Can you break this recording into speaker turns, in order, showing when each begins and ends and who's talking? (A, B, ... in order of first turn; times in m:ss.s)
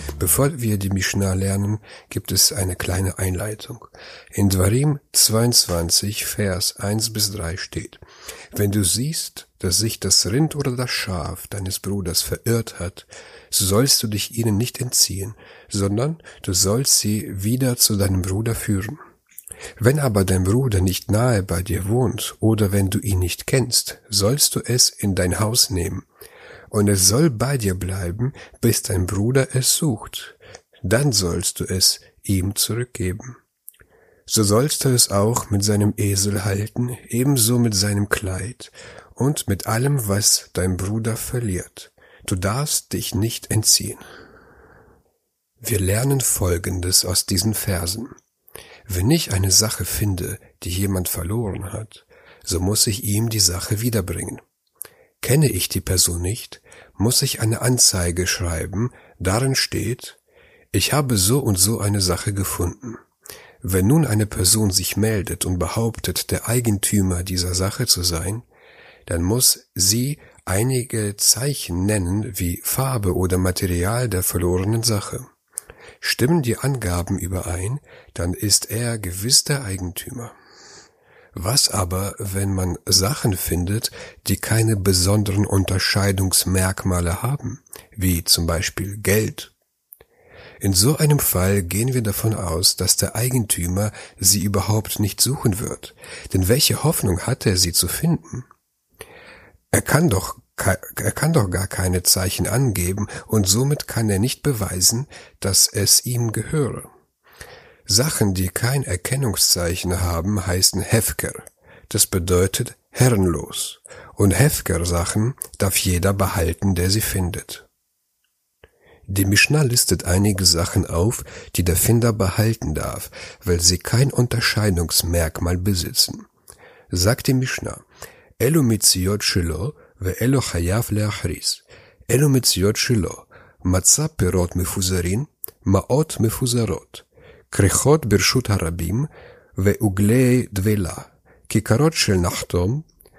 0:00.2-0:19.0 A
0:19.8-0:26.0 A
0:26.7-0:33.4 A
0:34.3-0:44.0 A
0:45.6-0:48.1 A
0:48.9-0:54.4 A
0:55.2-1:00.2 A
1:00.7-1:03.0 A
1:03.6-1:08.4 A
1:09.0-1:15.3 A
1:16.0-1:20.3 A
1:21.3-1:29.5 A
1:30.6-1:38.5 A
1:39.7-1:46.9 A
1:47.8-1:57.7 A
1:59.1-2:06.3 A
2:06.9-2:07.8 A
2:08.4-2:22.8 A